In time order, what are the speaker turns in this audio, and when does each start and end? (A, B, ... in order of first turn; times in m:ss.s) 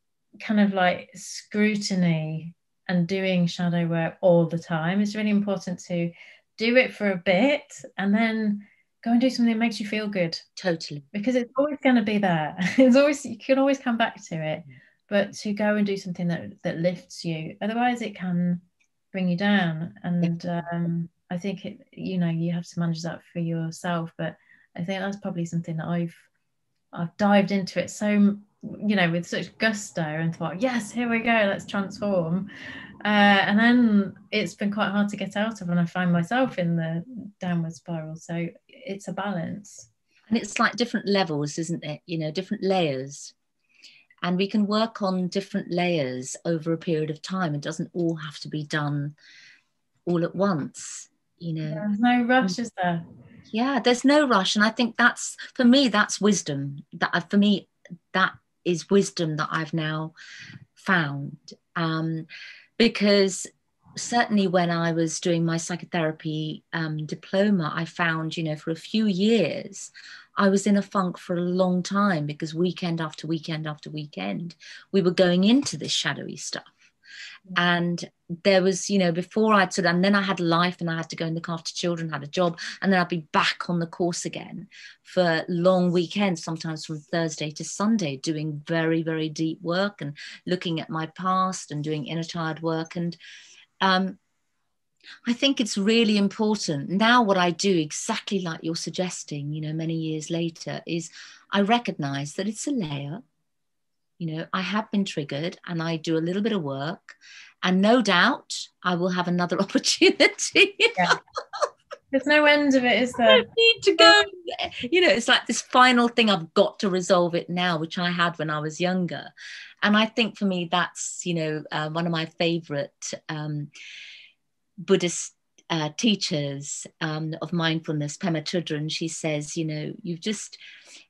0:00.4-0:10.4 A
0:10.6-0:11.1 B
0:11.1-0:26.3 A
0:26.9-0:32.5 A
0:33.0-0:39.9 A
0:40.3-0:43.3 B
0:44.2-0:49.2 B
0:50.1-0:51.9 B
0:51.7-0:53.0 A
0:53.5-1:00.1 B
1:00.8-1:02.3 B
1:02.8-1:16.7 B
1:17.6-1:33.2 B
1:33.8-1:34.2 B
1:35.3-1:43.2 B
1:44.2-1:51.7 B
1:52.1-1:53.5 A
1:53.3-1:59.3 B
1:54.0-1:54.2 A
1:59.8-2:03.7 B
2:04.8-2:10.6 B